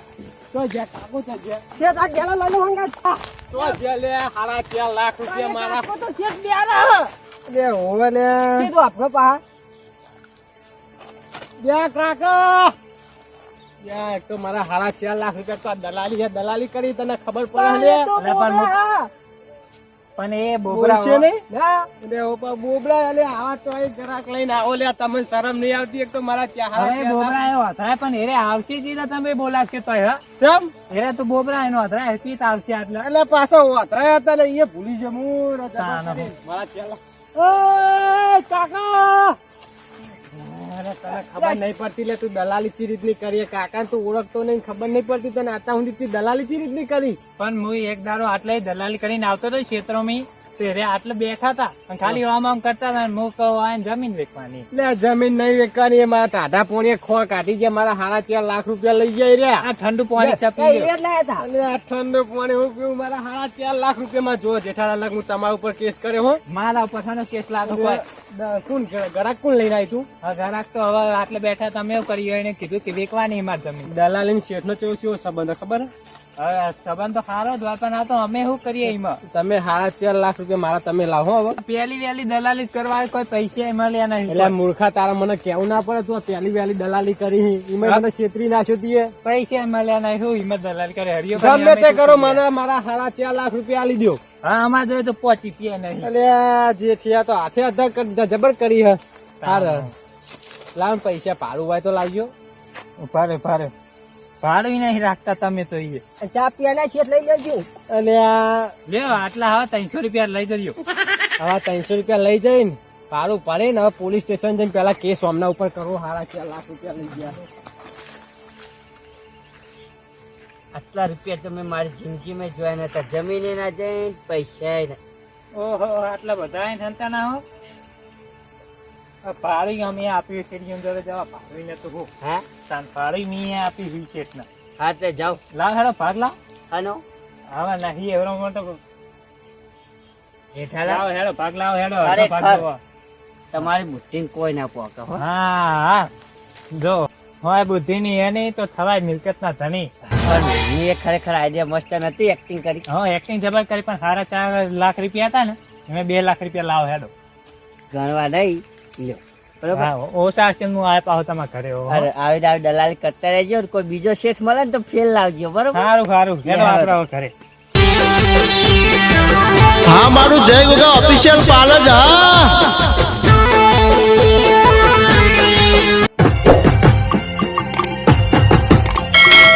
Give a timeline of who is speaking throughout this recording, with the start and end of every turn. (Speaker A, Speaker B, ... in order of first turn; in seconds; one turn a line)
Speaker A: 0.5-1.6
Speaker B: 1.8-3.8
Speaker A: 3.5-6.0
Speaker B: 5.2-7.1
Speaker A: 7.5-8.7
Speaker B: 8.5-9.4
Speaker A: 11.6-12.8
Speaker A: 13.8-18.1
Speaker B: 17.5-19.1
Speaker C: 18.1-18.8
Speaker C: 20.2-21.3
Speaker A: 20.7-27.4
Speaker C: 26.8-30.2
Speaker A: 30.4-30.7
Speaker C: 30.9-33.1
Speaker A: 33.0-39.4
Speaker C: 35.8-36.3
Speaker C: 40.3-41.6
Speaker A: 41.0-47.2
Speaker C: 47.4-54.7
Speaker A: 54.7-59.7
Speaker C: 59.6-60.9
Speaker A: 60.2-60.5
Speaker B: 60.6-61.5
Speaker A: 61.4-66.4
Speaker C: 66.5-68.0
Speaker A: 67.7-70.1
Speaker C: 70.2-73.9
Speaker A: 73.9-75.9
Speaker C: 76.4-79.2
Speaker A: 79.3-81.6
Speaker C: 81.6-84.5
Speaker A: 84.3-89.1
Speaker C: 89.2-92.4
Speaker A: 91.3-94.2
Speaker C: 94.4-96.1
Speaker A: 96.0-99.9
Speaker C: 99.4-99.9
Speaker A: 100.8-102.3
Speaker C: 103.0-103.7
Speaker C: 104.4-106.0
Speaker B: 106.2-107.9
Speaker A: 107.8-108.7
Speaker C: 108.9-110.8
Speaker A: 111.4-117.4
Speaker D: 120.7-125.0
Speaker C: 125.5-127.4
Speaker C: 129.2-132.1
Speaker D: 132.2-132.5
Speaker C: 132.7-134.5
Speaker D: 134.8-135.4
Speaker C: 135.5-136.3
Speaker D: 136.7-137.0
Speaker C: 137.5-138.8
Speaker D: 140.6-141.1
Speaker C: 140.8-142.8
Speaker D: 142.0-142.7
Speaker D: 143.5-145.2
Speaker C: 145.2-146.1
Speaker C: 146.7-149.9
Speaker D: 150.2-152.9
Speaker C: 152.9-157.1
Speaker D: 157.9-159.9
Speaker C: 159.7-162.1
Speaker D: 161.9-165.9
Speaker C: 165.7-167.3
Speaker D: 166.4-167.0
Speaker E: 170.0-172.2